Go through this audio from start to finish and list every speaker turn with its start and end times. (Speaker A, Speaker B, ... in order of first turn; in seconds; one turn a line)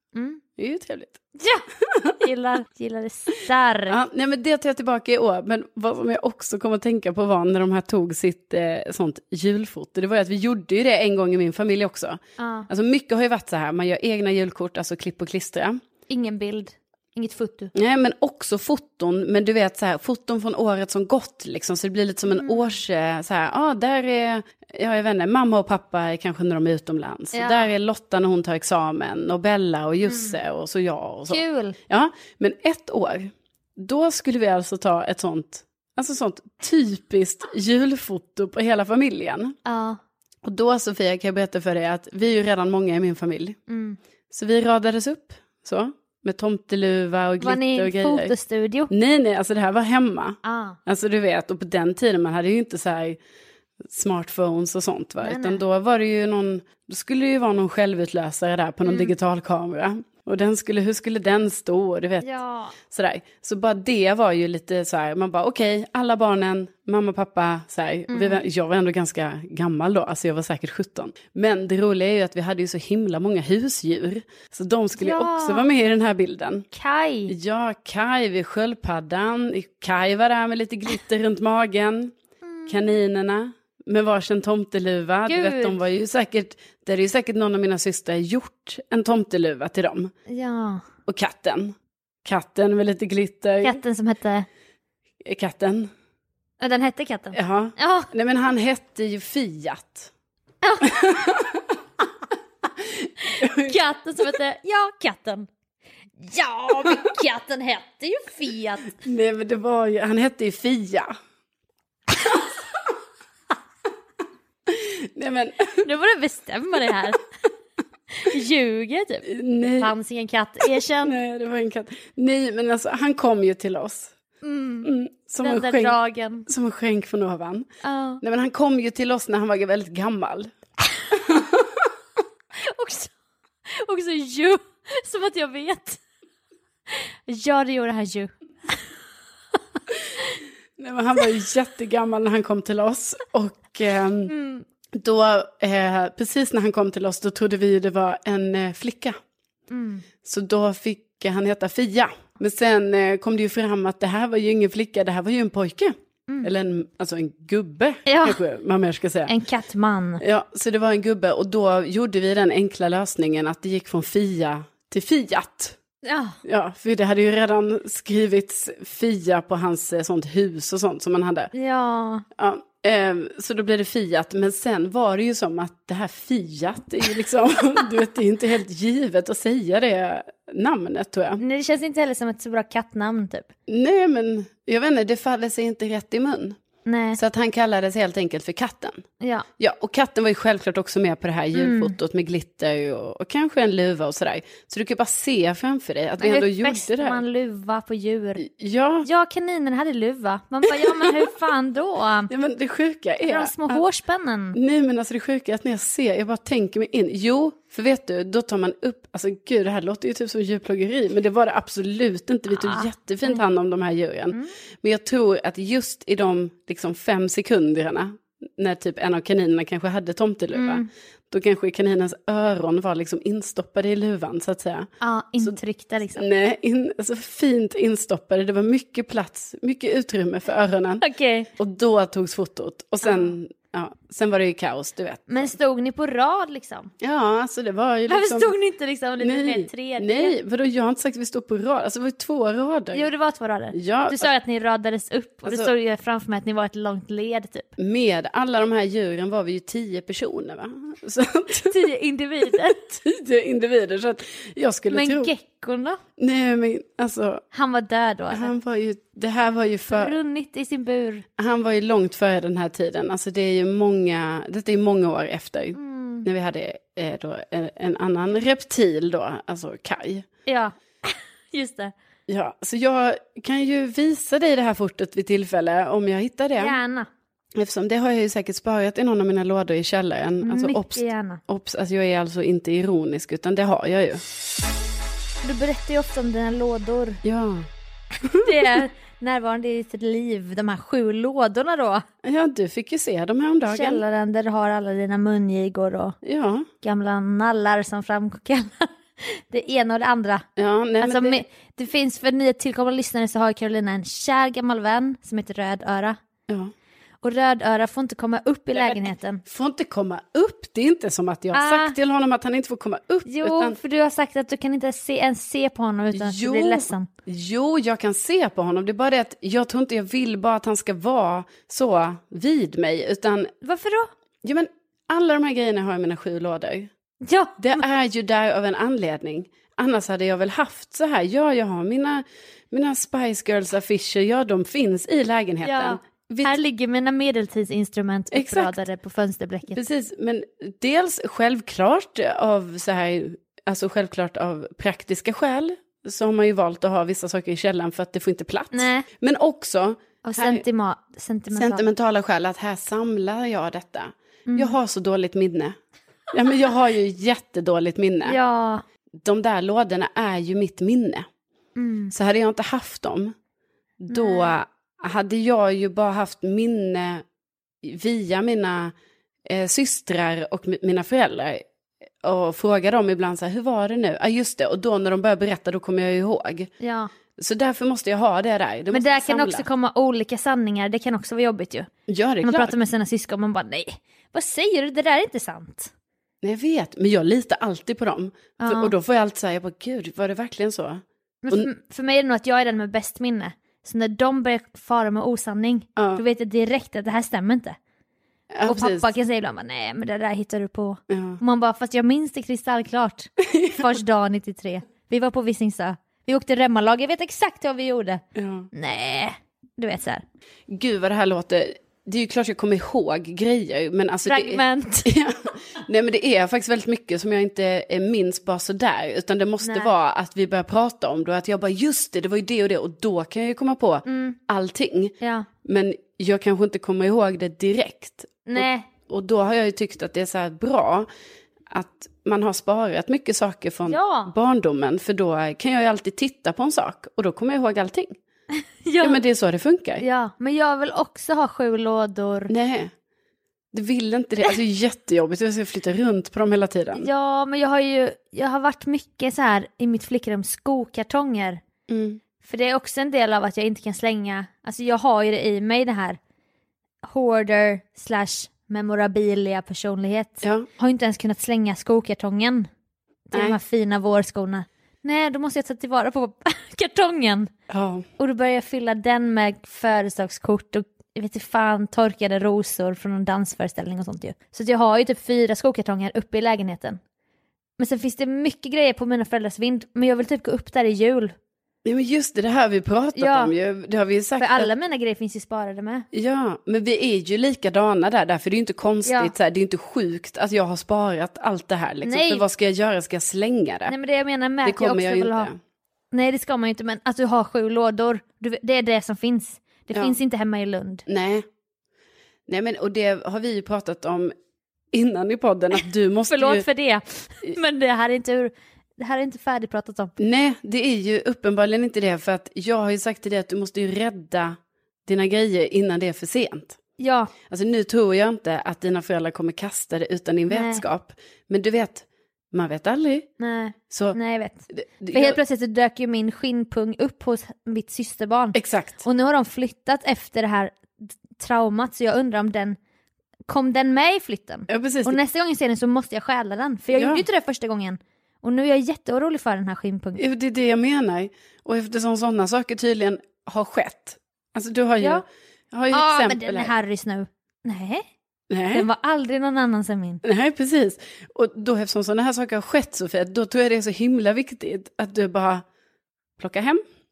Speaker A: 0.1-0.4
Speaker B: 0.6-1.2
Speaker A: 1.4-1.7
Speaker B: 1.8-2.1
Speaker A: 2.2-4.0
Speaker B: 3.9-15.8
Speaker A: 12.4-12.7
Speaker A: 16.1-17.7
Speaker B: 17.7-39.6
Speaker A: 22.3-22.7
Speaker A: 27.3-27.7
Speaker A: 30.1-30.4
Speaker A: 31.3-31.8
Speaker A: 39.6-40.0
Speaker B: 40.4-43.6
Speaker A: 43.7-44.0
Speaker B: 44.3-48.3
Speaker A: 47.4-48.9
Speaker B: 48.9-53.2
Speaker A: 50.4-50.8
Speaker B: 53.8-76.7
Speaker A: 55.2-55.6
Speaker A: 58.9-59.1
Speaker A: 62.2-62.8
Speaker A: 68.1-68.4
Speaker A: 75.0-75.7
Speaker A: 76.7-77.3
Speaker B: 77.3-82.1
Speaker A: 82.4-82.8
Speaker B: 82.7-90.1
Speaker A: 85.3-85.8
Speaker A: 90.3-90.8
Speaker B: 91.0-93.8
Speaker A: 93.6-94.5
Speaker B: 95.2-95.9
Speaker A: 96.6-98.1
Speaker B: 97.3-100.1
Speaker A: 100.6-101.0
Speaker B: 100.8-101.7
Speaker B: 102.8-103.8
Speaker A: 103.2-105.5
Speaker A: 106.2-109.0
Speaker B: 109.0-111.1
Speaker B: 114.7-115.8
Speaker A: 115.8-117.2
Speaker A: 118.1-121.2
Speaker B: 119.2-119.9
Speaker B: 121.0-124.1
Speaker A: 124.4-126.5
Speaker B: 124.8-127.7
Speaker A: 127.8-128.2
Speaker B: 128.2-130.5
Speaker B: 131.1-131.9
Speaker A: 132.6-133.1
Speaker A: 133.7-136.0
Speaker A: 136.9-138.8
Speaker B: 140.8-144.3
Speaker A: 144.3-144.6
Speaker B: 144.9-149.2
Speaker A: 149.7-150.0
Speaker B: 150.2-159.3
Speaker A: 158.1-158.4
Speaker A: 159.3-160.2
Speaker B: 160.2-165.8
Speaker A: 166.0-166.4
Speaker B: 166.4-171.5
Speaker A: 171.5-172.2
Speaker B: 172.4-181.4
Speaker A: 181.4-183.5
Speaker B: 183.7-186.6
Speaker A: 186.8-187.2
Speaker B: 187.1-189.0
Speaker A: 189.2-189.4
Speaker B: 189.6-197.2
Speaker A: 191.5-191.9
Speaker A: 196.2-198.4
Speaker B: 198.4-199.1
Speaker A: 199.0-202.3
Speaker B: 200.7-201.2
Speaker B: 202.3-203.8
Speaker A: 203.2-204.6
Speaker B: 204.5-225.6
Speaker A: 212.5-213.4
Speaker A: 220.5-220.9
Speaker A: 225.0-226.2
Speaker B: 226.2-231.0
Speaker A: 231.0-231.5
Speaker B: 231.6-235.5
Speaker A: 233.0-233.3
Speaker A: 235.3-236.9
Speaker B: 237.0-238.5
Speaker A: 238.1-240.3
Speaker B: 239.2-243.1
Speaker A: 242.9-247.7
Speaker B: 243.7-244.3
Speaker B: 245.4-245.7
Speaker B: 247.8-251.8
Speaker A: 251.6-253.0
Speaker B: 252.5-255.3
Speaker A: 254.9-256.0
Speaker B: 256.2-257.4
Speaker A: 257.5-258.5
Speaker B: 258.3-260.1
Speaker A: 259.9-261.2
Speaker B: 261.4-270.2
Speaker A: 265.7-266.3
Speaker A: 270.4-271.9
Speaker B: 272.3-276.8
Speaker A: 276.6-277.1
Speaker B: 277.5-284.2
Speaker A: 280.4-281.4
Speaker A: 285.4-287.2
Speaker B: 287.2-287.7
Speaker B: 288.2-288.8
Speaker A: 288.4-292.0
Speaker B: 292.2-294.0
Speaker A: 293.6-296.2
Speaker B: 296.2-296.7
Speaker A: 296.8-300.4
Speaker B: 300.6-301.4
Speaker A: 301.0-306.2
Speaker A: 307.2-309.4
Speaker B: 308.7-313.8
Speaker A: 311.5-311.9
Speaker A: 313.2-317.1
Speaker B: 316.1-323.5
Speaker A: 323.6-324.1
Speaker B: 324.4-326.9
Speaker A: 327.2-327.8
Speaker B: 327.6-336.6
Speaker A: 335.6-339.8
Speaker B: 338.3-338.8
Speaker B: 339.7-350.6
Speaker A: 348.7-349.1
Speaker A: 350.2-351.9
Speaker B: 351.5-355.8
Speaker A: 354.5-354.8
Speaker B: 356.3-358.4
Speaker A: 358.2-358.8
Speaker B: 359.2-361.2
Speaker A: 361.8-362.1
Speaker B: 362.1-363.3
Speaker B: 364.0-367.2
Speaker A: 364.1-364.5
Speaker B: 367.8-368.9
Speaker B: 369.4-371.6
Speaker B: 372.2-376.7
Speaker A: 376.8-377.1
Speaker B: 377.4-379.7
Speaker A: 378.9-381.9
Speaker B: 382.1-382.7
Speaker A: 382.4-385.9
Speaker B: 386.4-391.7
Speaker A: 388.6-388.9
Speaker A: 391.4-397.8
Speaker B: 395.9-396.2
Speaker B: 398.5-399.1
Speaker A: 398.6-408.2
Speaker B: 401.1-401.4
Speaker B: 403.4-403.9
Speaker B: 408.3-408.7
Speaker A: 408.7-410.2
Speaker B: 410.7-431.1
Speaker A: 414.2-415.1
Speaker A: 419.6-419.9
Speaker A: 424.0-424.4
Speaker A: 425.2-425.5
Speaker A: 428.4-428.9
Speaker B: 431.7-438.1
Speaker A: 433.9-434.3
Speaker A: 438.8-439.2
Speaker B: 439.0-440.0
Speaker A: 440.0-442.5
Speaker B: 442.5-442.9
Speaker B: 443.7-447.1
Speaker A: 446.9-451.6
Speaker B: 451.9-452.2
Speaker A: 452.4-456.2
Speaker A: 457.0-462.7
Speaker B: 460.4-460.7
Speaker A: 463.3-467.5
Speaker B: 463.3-463.6
Speaker B: 467.7-468.1
Speaker A: 468.2-477.0
Speaker A: 477.8-481.3
Speaker B: 481.8-484.7
Speaker A: 483.1-483.5
Speaker A: 484.4-486.1
Speaker B: 486.1-493.9
Speaker A: 489.1-489.3
Speaker A: 492.0-492.4
Speaker A: 493.9-495.5
Speaker B: 494.6-495.6
Speaker A: 496.1-501.0
Speaker B: 501.1-501.4
Speaker B: 502.5-504.3
Speaker B: 504.9-506.6
Speaker A: 506.3-510.1
Speaker B: 510.2-516.8
Speaker A: 517.0-517.3
Speaker B: 517.5-523.3
Speaker A: 520.5-520.8
Speaker A: 523.4-532.8
Speaker B: 523.9-524.2
Speaker B: 524.7-525.4
Speaker B: 528.5-529.0
Speaker A: 533.5-540.2
Speaker B: 534.7-535.2
Speaker B: 536.9-537.2
Speaker B: 540.2-546.7
Speaker A: 545.9-548.0
Speaker B: 548.5-548.9
Speaker A: 548.7-550.2
Speaker B: 550.2-555.6
Speaker B: 556.4-556.8